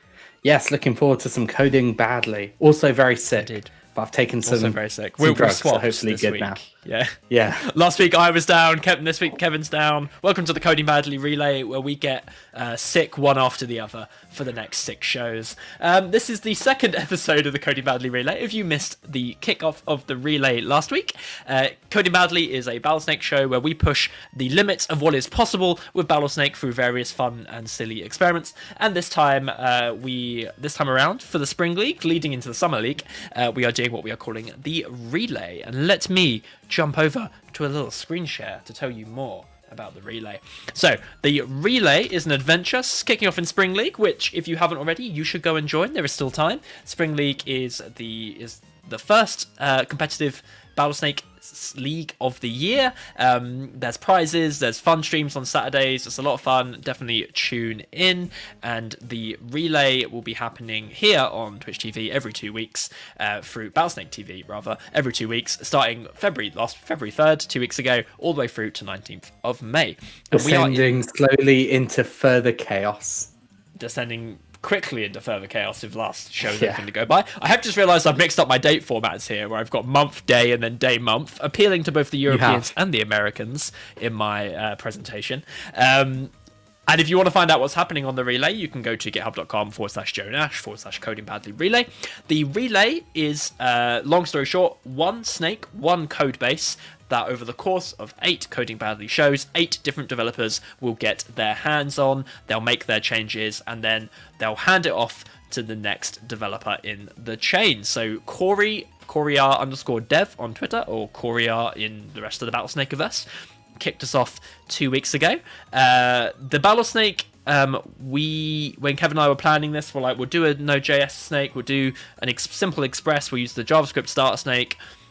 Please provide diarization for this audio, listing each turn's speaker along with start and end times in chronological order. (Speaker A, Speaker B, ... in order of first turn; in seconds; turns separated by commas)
Speaker A: 0.4-6.6, Speaker B: 3.4-3.7, Speaker B: 4.4-70.9, Speaker A: 7.3-7.7, Speaker A: 70.3-73.3, Speaker B: 73.8-86.3, Speaker A: 76.4-76.8, Speaker A: 82.3-82.7, Speaker B: 86.9-124.8